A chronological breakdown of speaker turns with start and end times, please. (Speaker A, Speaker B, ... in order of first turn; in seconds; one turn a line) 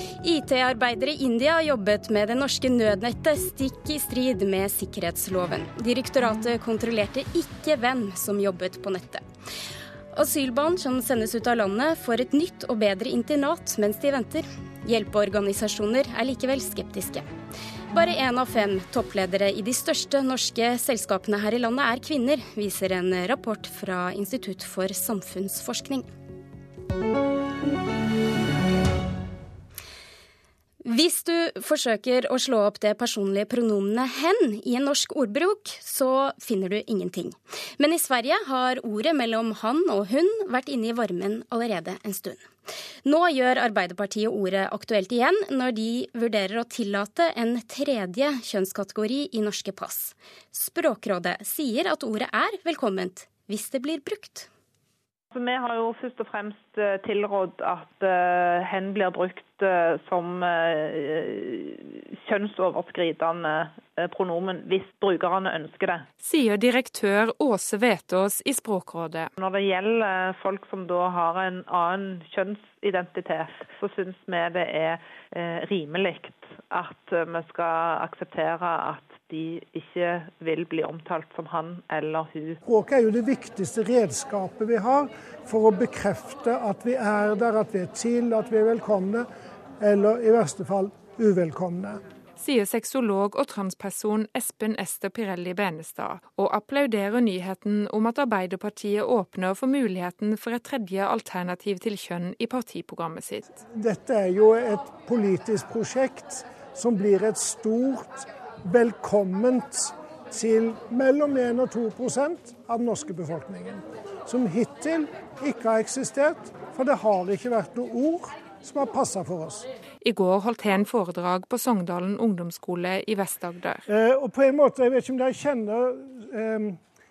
Speaker A: 0.2-9.2
Speaker A: 10.1-17.2
Speaker A: 17.9-26.1
Speaker A: 30.8-42.5
Speaker A: 43.0-54.5
Speaker B: 55.3-66.1
Speaker C: 66.2-69.3
Speaker B: 69.3-82.6
Speaker D: 82.6-89.3
Speaker D: 89.8-92.0
Speaker C: 92.4-103.6
Speaker D: 103.7-119.7
Speaker C: 120.0-123.8
Speaker D: 123.9-126.8